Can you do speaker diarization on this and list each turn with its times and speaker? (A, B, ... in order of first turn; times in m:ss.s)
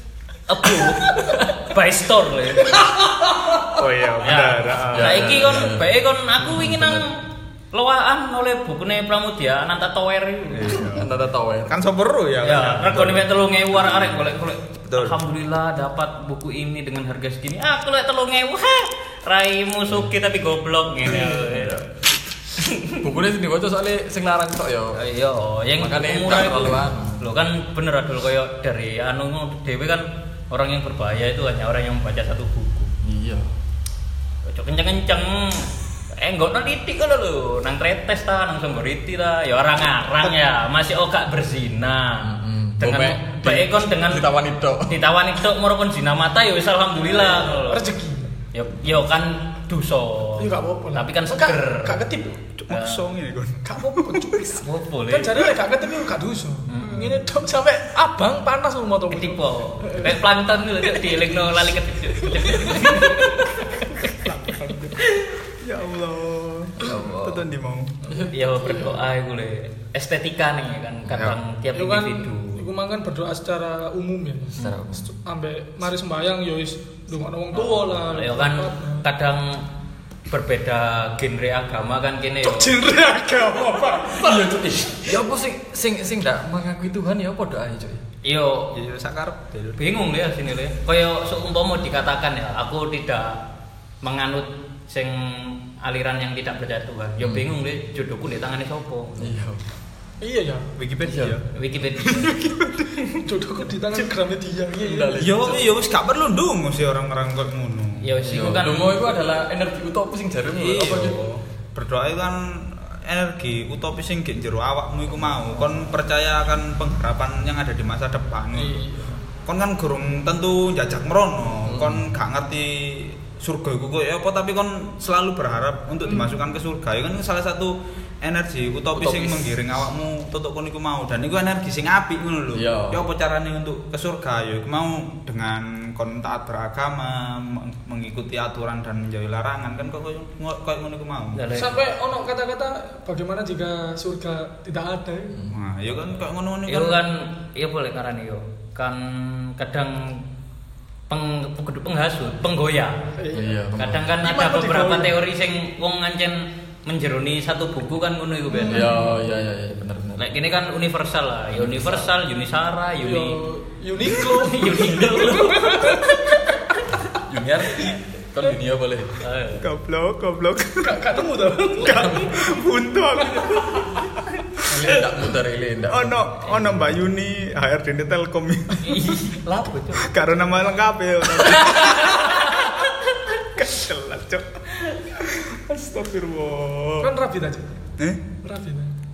0:00.5-0:02.8 A
0:00.7-0:01.4 B
0:02.5-0:03.8 B
0:03.7-0:05.6 C
0:04.2-0:10.9 A
0:04.9-0:07.1 D
0:10.5-0:11.1 C
0:10.7-0:11.8 D
0:11.7-0:13.3 C
0:12.4-0:21.8 A
0:13.8-0:14.2 C
0:14.9-0:15.2 C
0:21.0-0:21.9 D
0:22.6-0:23.0 A
0:23.0-0:25.0 D
0:24.9-0:32.9 A
0:25.8-0:27.2 D
0:33.0-0:33.5 D
0:34.4-0:44.3 A
0:42.2-0:45.0 D
0:44.8-0:47.9 A
0:47.0-0:48.3 B
0:48.5-0:52.0 A
0:50.4-0:52.4 B
0:52.6-0:54.4 C
0:52.7-0:53.1 A
0:53.6-1:00.2 B
0:54.6-0:55.4 A
0:56.7-0:57.2 A
0:59.1-1:04.1 A
1:00.9-1:01.3 B
1:02.2-1:03.4 B
1:04.2-1:04.9 B
1:04.4-1:05.0 C
1:05.0-1:05.3 A
1:05.6-1:08.0 C
1:06.8-1:07.4 D
1:08.0-1:09.0 B
1:08.3-1:12.6 A
1:11.1-1:11.4 C
1:11.7-1:19.0 B
1:14.5-1:15.1 D
1:17.5-1:19.6 A
1:20.3-1:22.7 A
1:22.4-1:24.6 B
1:24.1-1:28.0 D
1:28.2-1:28.7 A
1:28.7-1:29.8 C
1:29.8-1:33.4 A
1:34.0-1:39.3 A
1:37.2-1:37.5 D
1:39.2-1:39.6 D
1:40.2-1:40.7 B
1:40.8-1:41.5 C
1:41.0-1:41.4 D
1:41.5-1:42.5 A
1:42.0-1:43.0 C
1:43.2-1:45.2 B
1:44.7-1:45.8 D
1:45.2-1:48.1 C
1:48.0-1:49.1 A
1:48.2-1:51.4 D
1:50.5-1:58.8 C
1:55.1-1:55.9 D
1:58.5-1:59.2 B
1:59.4-2:21.4 C
2:01.6-2:02.1 D
2:06.0-2:06.3 B
2:08.9-2:09.7 D
2:12.5-2:13.0 D
2:21.3-2:21.8 A
2:21.5-2:25.3 B
2:25.5-2:27.0 C
2:26.7-2:30.2 A
2:31.1-2:33.1 A
2:33.2-2:33.6 B
2:33.3-2:34.1 D
2:33.8-2:38.9 A
2:34.2-2:35.2 B
2:38.5-2:39.2 B
2:38.7-2:40.3 D
2:40.2-2:43.4 A
2:41.6-2:42.0 D
2:43.0-2:46.4 B
2:44.2-2:46.1 A
2:45.1-2:45.4 D
2:47.2-2:49.1 D
2:49.2-2:49.6 A
2:49.6-2:51.1 C
2:50.8-2:52.4 B
2:51.8-2:54.2 C
2:54.7-2:57.0 D
2:55.9-2:59.0 C
2:58.8-3:00.2 A
2:59.9-3:02.8 C
3:01.4-3:02.8 A
3:03.4-3:07.1 C
3:07.0-3:07.7 B
3:08.4-3:08.9 B